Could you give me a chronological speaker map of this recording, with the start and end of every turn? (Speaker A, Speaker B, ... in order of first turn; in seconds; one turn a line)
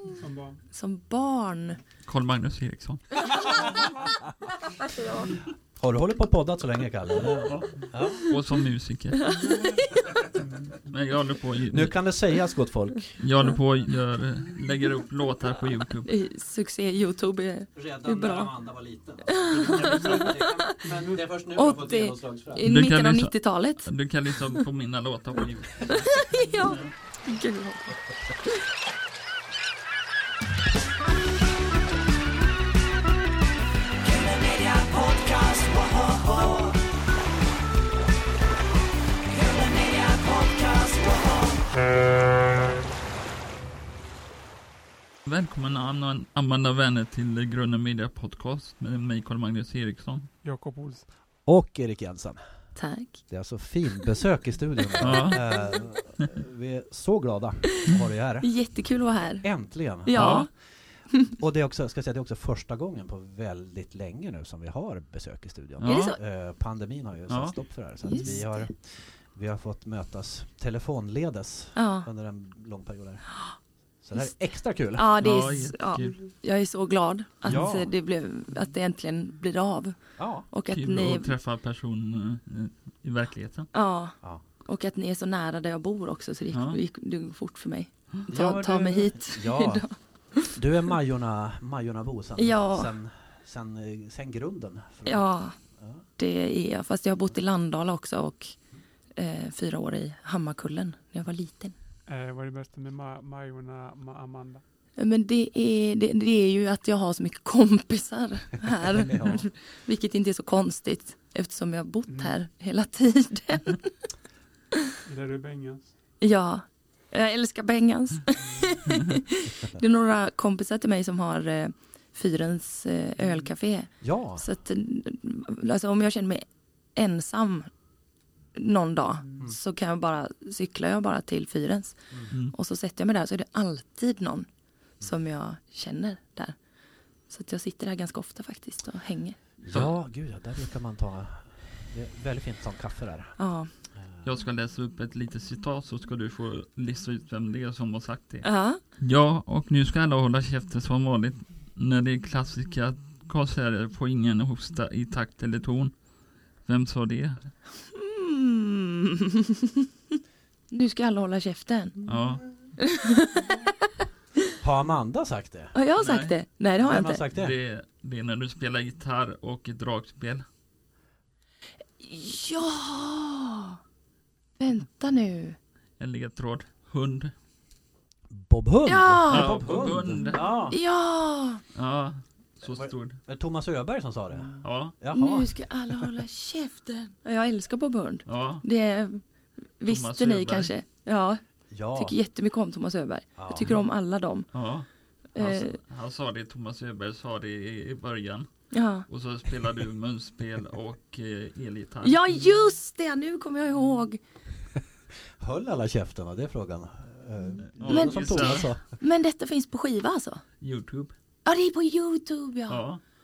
Speaker A: 0.2-0.6
Speaker B: 0.7-1.8
Speaker C: 2.0-3.3
Speaker B: 4.9-5.2
Speaker D: 5.8-8.2
Speaker C: 7.5-9.3
Speaker B: 8.1-8.4
Speaker B: 9.2-10.1
Speaker C: 10.8-12.2
Speaker D: 11.7-13.3
Speaker C: 13.2-16.1
Speaker B: 16.1-18.6
Speaker D: 17.8-22.6
Speaker B: 19.3-20.8
Speaker C: 19.7-20.3
Speaker A: 20.9-21.2
Speaker B: 21.5-23.9
Speaker C: 22.6-26.9
Speaker B: 25.9-28.5
Speaker C: 45.3-50.3
Speaker A: 50.4-51.1
Speaker D: 51.4-52.6
Speaker B: 52.8-53.3
Speaker D: 53.3-75.2
Speaker C: 55.0-55.5
Speaker B: 58.4-60.5
Speaker C: 60.1-60.5
Speaker C: 65.8-66.2
Speaker B: 65.8-66.2
Speaker C: 67.3-68.3
Speaker B: 68.0-68.7
Speaker B: 71.8-72.1
Speaker B: 74.9-81.3
Speaker C: 75.2-76.2
Speaker D: 77.5-77.9
Speaker D: 80.2-80.5
Speaker C: 80.7-83.7
Speaker B: 83.7-90.6
Speaker C: 86.5-86.8
Speaker D: 88.3-96.0
Speaker B: 92.4-92.9
Speaker B: 95.0-95.6
Speaker B: 96.2-98.6
Speaker B: 99.2-101.7
Speaker A: 102.1-104.6
Speaker B: 105.0-113.9
Speaker D: 109.0-109.4
Speaker A: 115.0-115.9
Speaker B: 116.2-127.7
Speaker D: 124.0-124.4
Speaker B: 128.5-134.5
Speaker B: 135.0-136.6
Speaker B: 137.3-139.4
Speaker D: 139.6-143.4
Speaker B: 143.4-143.7
Speaker D: 143.9-144.2
Speaker C: 144.2-157.6
Speaker B: 148.4-148.8
Speaker B: 157.9-159.3
Speaker B: 160.7-162.0
Speaker C: 162.1-162.7
Speaker B: 162.8-163.7
Speaker D: 164.6-165.8
Speaker B: 165.7-167.2
Speaker C: 166.0-166.4
Speaker D: 166.8-167.6
Speaker C: 167.3-170.5
Speaker B: 172.0-173.8
Speaker B: 174.6-175.6
Speaker C: 176.0-177.3
Speaker D: 178.3-180.8
Speaker B: 178.9-181.6
Speaker C: 179.3-180.5
Speaker C: 181.8-183.2
Speaker D: 182.6-186.0
Speaker C: 184.6-184.9
Speaker B: 185.1-189.2
Speaker C: 188.3-188.6
Speaker B: 189.8-194.5
Speaker C: 189.9-190.7
Speaker D: 191.7-192.2
Speaker D: 193.4-193.7
Speaker C: 194.5-202.2
Speaker B: 195.3-195.8
Speaker B: 198.7-199.1
Speaker B: 202.0-204.2
Speaker D: 205.3-209.0
Speaker C: 207.8-208.7
Speaker B: 207.8-210.4
Speaker C: 210.6-211.1
Speaker B: 211.4-212.8
Speaker C: 212.7-213.0